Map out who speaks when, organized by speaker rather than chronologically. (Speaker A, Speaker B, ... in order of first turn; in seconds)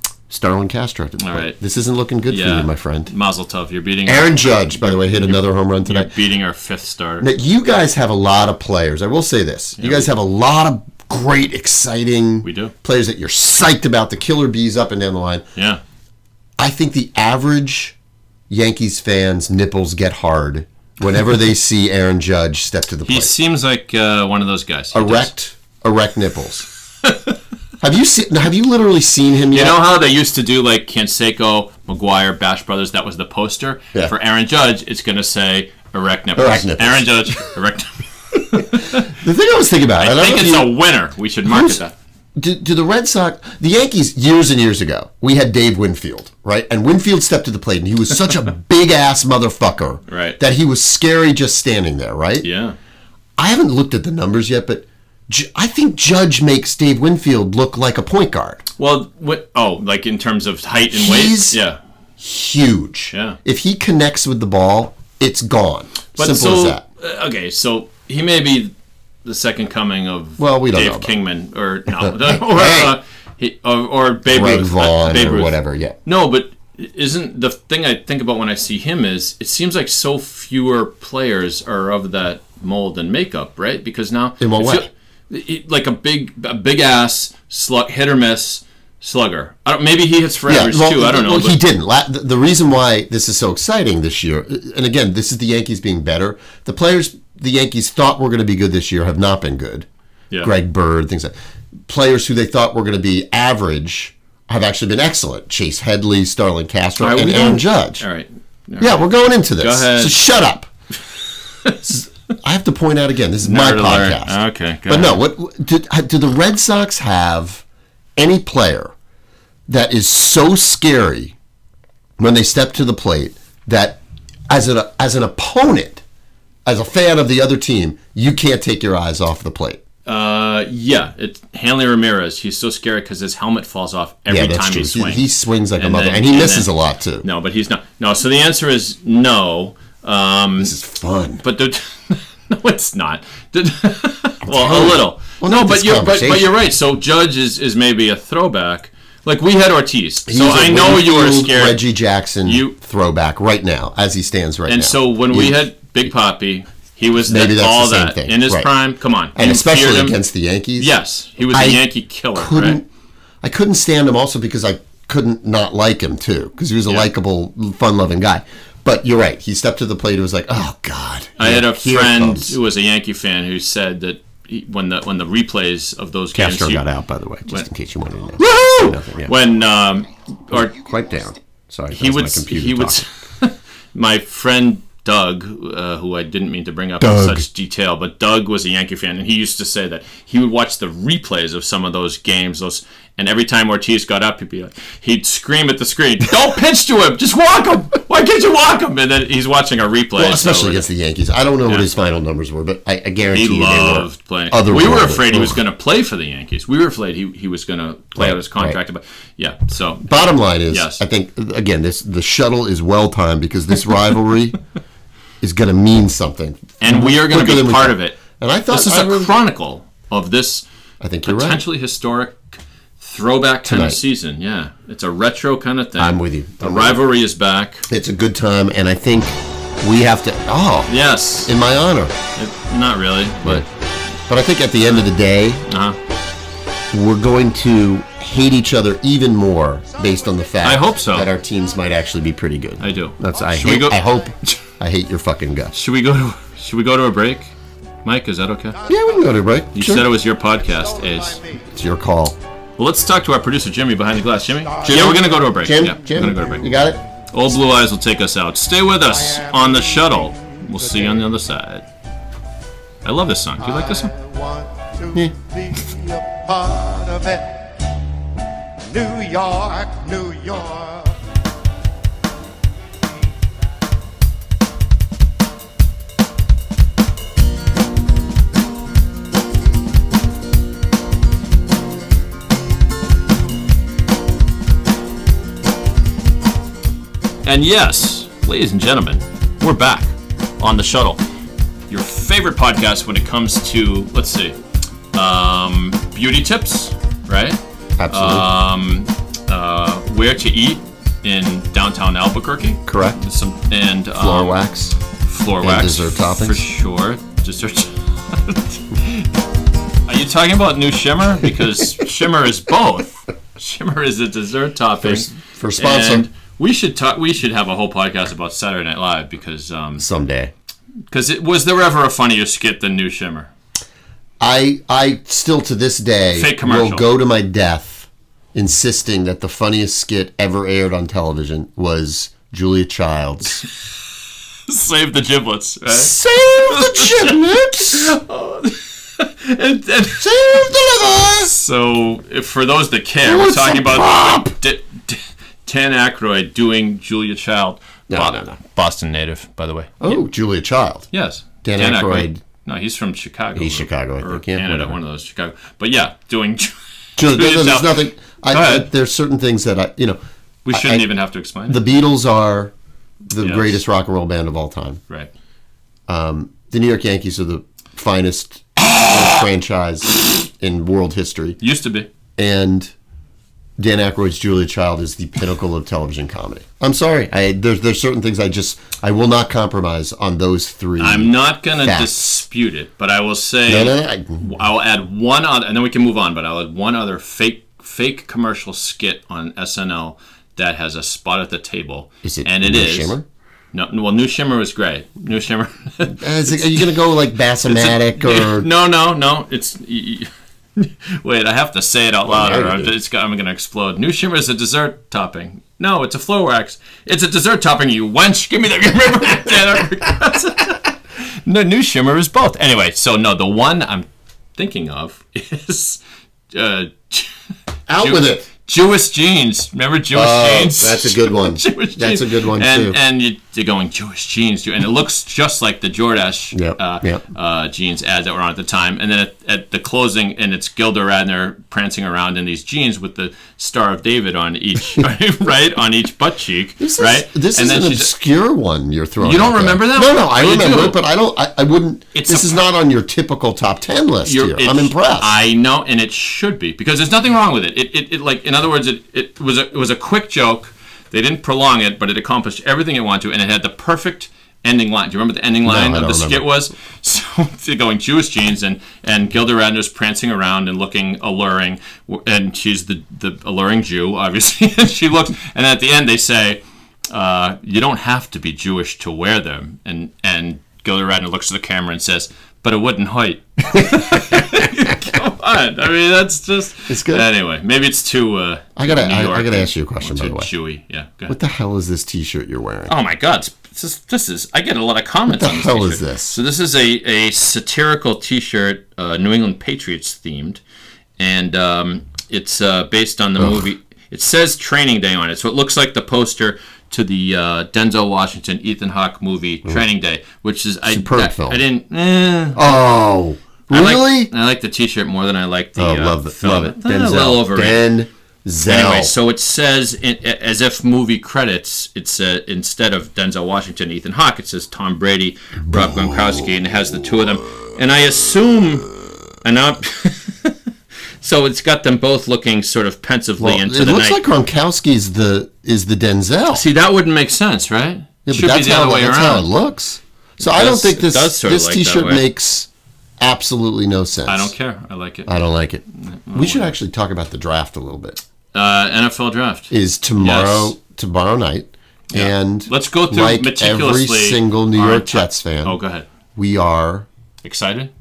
Speaker A: 0.3-3.1, 4.0-6.1, 7.2-15.4, 16.6-17.9, 18.5-23.3, 24.9-26.7, 27.8-29.8, 36.4-37.3, 39.0-40.8, 41.5-41.8, 42.4-52.5, 53.4-58.6, 60.9-61.6, 62.2-66.8, 70.4-71.1, 72.0-73.0, 74.2-76.0, 84.4-84.9, 90.5-99.9, 100.4-101.3, 101.9-108.0, 108.8-110.7, 111.9-117.6, 118.2-118.9, 119.7-121.3, 122.2-126.0, 126.7-129.8, 134.3-137.2, 140.6-141.4, 144.4-146.5, 150.3-155.6, 157.2-158.7, 159.3-160.9, 161.5-162.9, 163.4-172.6, 176.3-179.3, 180.5-183.1, 187.0-187.4, 200.2-205.6, 208.2-208.8, 210.1-214.6, 215.4-219.3, 221.0-221.6, 223.6-224.0, 226.0-227.0, 227.9-230.9, 231.4-232.1, 234.3-235.6, 236.9-245.7, 248.9-250.1, 251.6-252.4, 254.8-257.0, 298.0-298.5, 302.9-303.2, 304.1-304.9, 305.6-306.6, 315.0-316.2, 320.0-320.5, 324.4-333.6, 335.9-338.1, 340.2-341.5, 343.2-344.6, 348.1-348.6, 350.0-351.1, 351.6-352.4, 353.5-355.0, 357.2-360.2, 360.7-361.1, 361.7-362.7, 363.3-365.0, 366.1-371.6, 372.4-372.9, 373.8-382.4, 383.7-384.5, 392.2-393.2, 396.1-398.7, 402.3-402.9, 417.9-418.5, 420.1-423.0, 426.5-427.2, 436.8-445.3, 455.6-456.6, 476.9-477.2, 478.8-480.5, 481.3-482.9, 485.3-486.4, 493.4-493.6, 500.9-501.6, 502.5-504.3, 505.8-509.1, 523.4-526.6, 528.2-532.7, 533.2-534.5, 535.2-538.2, 539.7-545.8, 546.4-547.1
Speaker B: 1.2-1.6, 2.3-7.3, 9.8-10.1, 12.4-12.7, 15.6-15.8, 23.1-25.3, 29.5-39.1, 40.0-41.9, 50.1-50.4, 52.4-52.8, 58.8-61.8, 63.1-63.4, 66.1-68.7, 69.2-91.6, 107.0-109.0, 109.6-110.2, 113.4-115.2, 130.1-135.2, 135.8-136.7, 137.2-140.7, 141.4-151.8, 152.4-152.8, 154.7-160.2, 160.8-162.8, 171.4-176.8, 178.4-180.7, 181.9-200.9, 203.3-211.0, 216.8-220.6, 221.2-227.9, 230.9-231.5, 232.4-233.6, 235.7-236.0, 240.6-241.3, 242.8-244.6, 245.7-248.8, 249.7-251.4, 252.8-256.7, 257.3-261.8, 263.0-264.1, 287.4-291.2, 291.9-294.6, 295.1-304.6, 305.2-309.3, 310.1-320.1, 321.1-323.5, 326.3-327.1, 334.7-350.2, 351.1-358.9, 360.6-361.8, 363.4-363.8, 371.6-372.1, 381.0-393.1, 393.7-396.9, 397.6-417.3, 418.0-438.1, 439.2-441.0, 442.1-442.6, 444.2-481.4, 482.9-490.6, 491.2-502.6, 503.7-507.8, 508.6-518.9, 519.4-520.5, 521.2-524.2, 526.5-529.5, 530.4-532.2, 534.3-535.3, 536.0-536.7, 538.5-540.8, 542.1-546.1, 547.4-547.9
Speaker C: 266.1-267.4, 268.9-270.8